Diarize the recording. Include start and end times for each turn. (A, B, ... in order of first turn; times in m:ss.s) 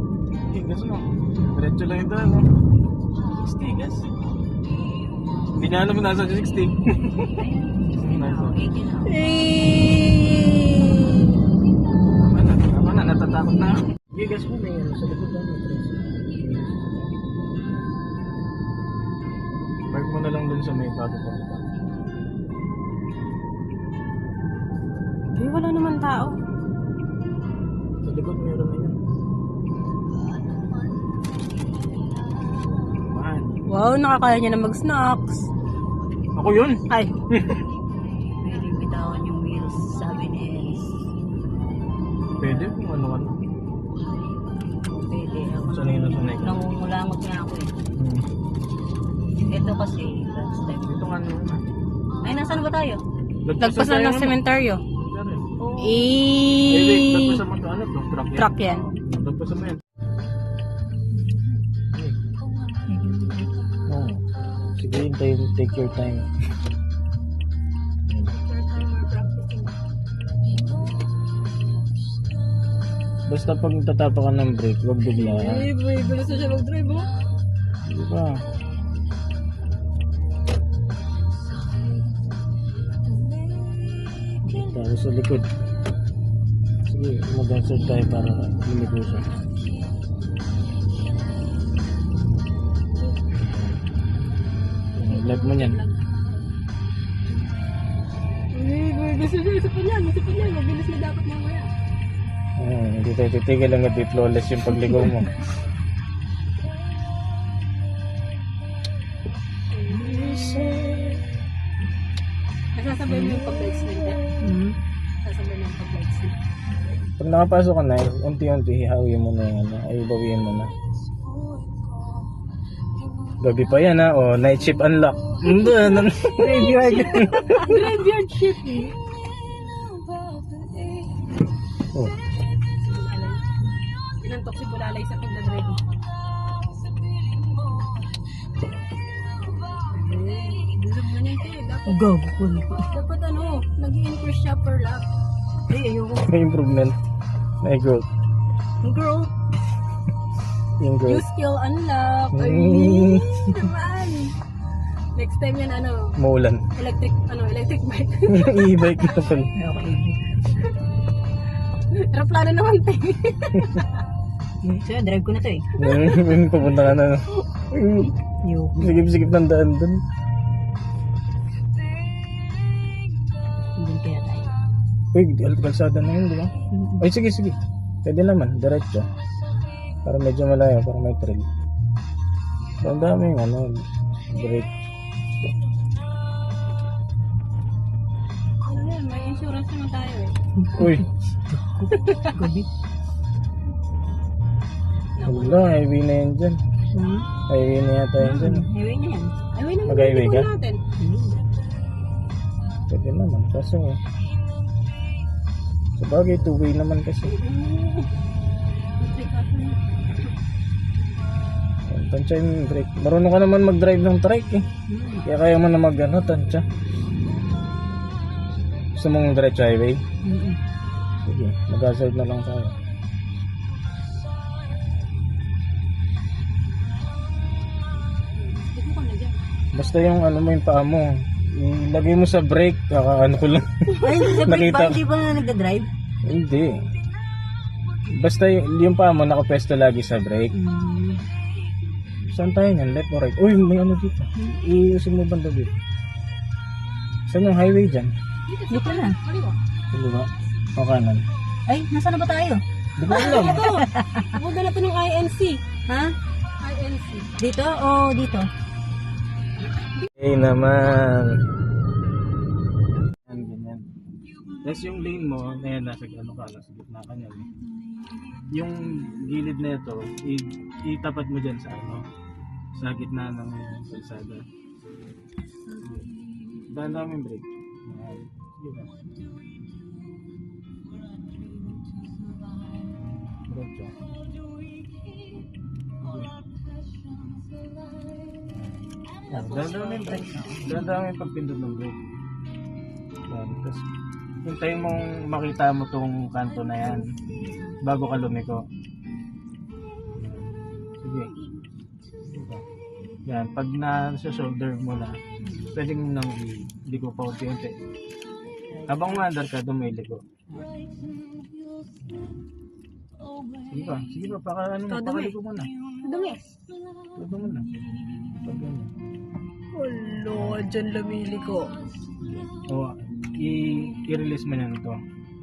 0:00.5-0:02.5 A
0:03.3-0:04.1 A
0:05.6-0:08.6 A
0:07.3-0:09.6 B
0:09.1-0:11.4 C
0:12.1-0:17.2 A
0:19.9-0:21.6 A
0:25.3-0:26.4 C
0:28.0-0:29.0 A
0:33.0-0:33.6 A
0:33.7-0:35.5 C
0:36.3-0:37.6 A
0:36.9-0:37.2 C
0:38.4-0:41.1 B
0:42.4-0:43.4 A
0:42.4-0:42.8 B
0:44.8-0:47.7 B
0:45.7-0:46.7 A
0:48.0-0:48.2 A
0:49.4-0:50.9 B
0:50.8-0:51.6 A
0:52.2-0:53.0 B
0:53.4-0:54.4 A
0:53.6-0:54.8 C
0:55.0-0:56.2 A
0:55.8-0:57.4 C
0:56.7-0:59.8 A
0:58.4-0:58.9 C
1:01.9-1:02.2 A
1:02.9-1:03.5 B
1:03.9-1:04.2 A
1:04.8-1:06.3 A
1:08.1-1:08.3 A
1:08.3-1:09.8 C
1:13.3-1:15.7 A
1:15.1-1:17.1 C
1:17.8-1:18.4 A
1:24.4-1:25.4 A
1:26.9-1:29.2 A
1:33.4-1:33.8 A
1:35.0-1:35.8 A
1:35.1-1:36.1 C
1:38.5-1:41.7 C
1:42.6-1:45.3 A
1:44.8-1:45.2 B
1:49.7-1:50.5 C
1:50.1-1:51.2 A
1:52.8-1:54.2 C
1:53.1-1:53.4 B
1:54.4-1:54.8 B
1:55.2-1:56.4 C
1:57.0-2:00.7 A
2:03.4-2:07.8 A
2:06.4-2:09.0 C
2:11.9-2:12.2 A
2:12.8-2:13.4 C
2:14.2-2:15.8 C
2:19.9-2:22.1 C
2:21.9-2:22.9 B
2:22.8-2:25.0 C
2:25.7-2:26.3 B
2:26.2-2:27.0 A
2:27.6-2:28.1 A
2:28.8-2:29.3 B
2:30.8-2:31.2 A
2:31.1-2:34.4 C
2:32.3-2:33.5 A
2:35.2-2:36.2 C
2:36.2-2:36.6 A
2:36.7-2:38.7 C
2:38.3-2:39.8 A
2:39.6-2:40.2 B
2:41.9-2:43.9 C
2:44.6-2:46.2 B
2:45.8-2:48.1 A
2:48.4-2:48.8 B
2:48.8-2:50.0 A
2:53.8-2:54.5 B
2:55.1-2:59.1 A
2:56.7-2:57.0 B
3:00.0-3:01.5 A
3:02.8-3:04.7 A
3:08.6-3:10.4 C
3:10.6-3:12.7 B
3:10.7-3:11.1 A
3:11.9-3:12.5 C
3:15.2-3:15.7 C
3:15.2-3:16.6 A
3:16.9-3:17.3 B
3:17.5-3:18.7 A
3:18.2-3:19.4 B
3:19.5-3:20.8 C
3:19.8-3:20.5 A
3:21.0-3:21.4 B
3:22.9-3:24.0 A
3:26.0-3:27.4 A
3:27.2-3:28.1 C
3:29.0-3:29.8 C
3:31.9-3:34.7 A
3:34.9-3:35.3 B
3:35.2-3:36.6 A
3:39.0-3:40.0 A
3:40.2-3:40.6 B
3:41.2-3:42.8 A
3:48.5-3:49.4 C
3:49.7-3:55.0 A
3:53.9-3:55.9 B
3:56.2-3:56.9 A
3:58.2-4:00.5 A
4:00.5-4:01.2 B
4:02.3-4:05.7 A
4:07.3-4:08.1 A
4:08.5-4:09.6 C
4:08.7-4:09.2 B
4:09.9-4:11.2 A
4:11.7-4:14.4 B
4:13.0-4:13.7 A
4:13.1-4:15.6 C
4:15.9-4:16.2 B
4:16.6-4:17.3 C
4:17.4-4:18.5 B
4:20.2-4:21.4 A
4:23.3-4:23.9 A
4:24.6-4:27.5 A
4:28.5-4:32.0 A
4:32.8-4:34.4 A
4:35.8-4:36.1 A
4:36.7-4:39.0 A
4:43.5-4:43.9 A
4:46.0-4:46.3 A
4:49.3-4:52.0 A
4:49.3-4:50.8 B
4:53.3-4:53.9 A
4:54.4-4:57.0 A
4:57.8-4:58.6 A
5:00.2-5:01.3 A
5:02.3-5:02.6 A
5:03.3-5:05.2 A
5:05.4-5:05.7 B
5:05.7-5:07.7 A
5:08.7-5:09.2 B
5:08.9-5:10.2 A
5:12.0-5:12.4 A
5:13.7-5:15.7 A
5:14.9-5:15.3 C
5:16.0-5:16.6 C
5:17.2-5:17.7 A
5:18.4-5:18.9 A
5:19.8-5:21.7 C
5:20.3-5:20.7 A
5:22.2-5:25.0 A